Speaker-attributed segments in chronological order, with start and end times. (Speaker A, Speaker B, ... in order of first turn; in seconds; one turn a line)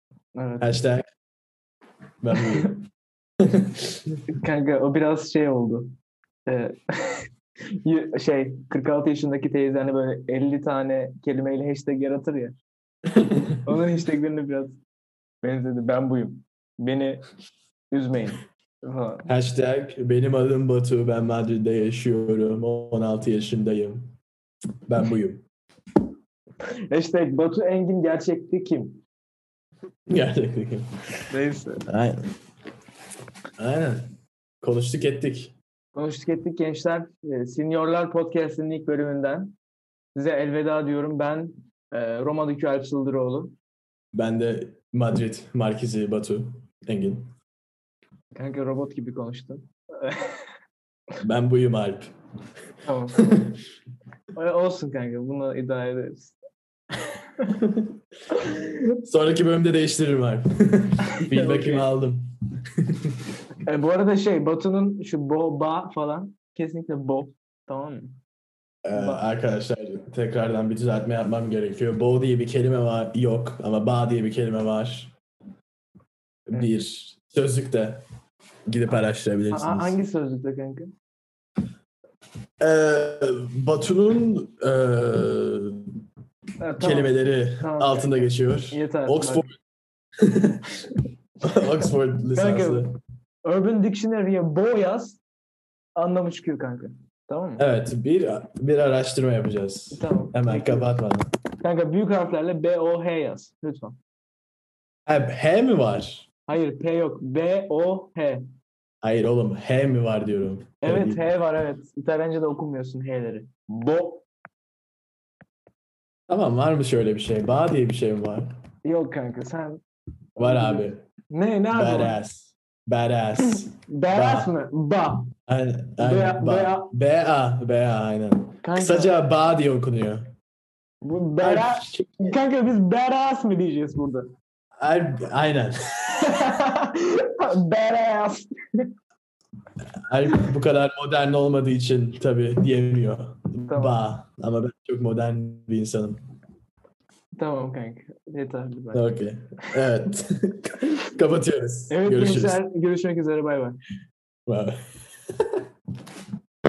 Speaker A: 0.3-0.8
Speaker B: 0.6-1.1
Speaker B: 2.2-2.8
Speaker A: 2.4-2.8
Speaker B: 3.4-4.0
Speaker A: 4.3-5.9
Speaker A: 6.5-12.6
Speaker B: 13.2-13.6
Speaker A: 13.6-14.8
Speaker A: 15.4-17.2
Speaker A: 17.9-19.3
Speaker B: 19.2-24.1
Speaker B: 24.9-25.4
Speaker A: 26.9-29.0
Speaker B: 30.1-30.9
Speaker A: 31.3-31.8
Speaker B: 31.9-32.2
Speaker B: 33.6-34.1
Speaker B: 34.6-35.5
Speaker A: 35.9-39.5
Speaker A: 40.1-43.5
Speaker B: 44.1-47.3
Speaker A: 48.3-50.4
Speaker B: 51.2-52.1
Speaker A: 52.8-53.5
Speaker B: 53.2-53.5
Speaker A: 54.3-56.4
Speaker A: 57.0-57.6
Speaker A: 58.3-58.7
Speaker B: 59.0-63.1
Speaker A: 61.1-61.9
Speaker A: 63.6-68.2
Speaker B: 68.8-75.1
Speaker A: 68.9-69.2
Speaker B: 76.5-78.0
Speaker B: 78.7-80.0
Speaker A: 79.5-80.9
Speaker B: 82.6-85.9
Speaker A: 86.6-89.5
Speaker B: 86.8-89.5
Speaker B: 90.2-90.8
Speaker B: 91.4-93.0
Speaker A: 92.3-92.9
Speaker A: 93.4-95.2
Speaker A: 96.0-97.6
Speaker B: 97.6-101.3
Speaker A: 99.9-100.9
Speaker A: 101.6-104.0
Speaker B: 105.0-106.2
Speaker A: 106.5-108.4
Speaker B: 109.0-111.2
Speaker A: 110.8-114.2
Speaker B: 116.3-118.5
Speaker A: 118.8-119.8
Speaker B: 120.3-121.0
Speaker A: 120.4-122.2
Speaker B: 121.7-124.5
Speaker A: 123.4-125.3
Speaker B: 125.5-130.3
Speaker A: 126.0-126.9
Speaker A: 128.6-129.1
Speaker A: 131.0-134.3
Speaker B: 131.4-132.4
Speaker B: 134.8-136.3
Speaker A: 136.2-138.9
Speaker B: 140.1-146.2
Speaker A: 143.7-144.0
Speaker A: 147.3-149.1
Speaker B: 148.9-152.6
Speaker A: 151.9-153.8
Speaker B: 154.5-154.8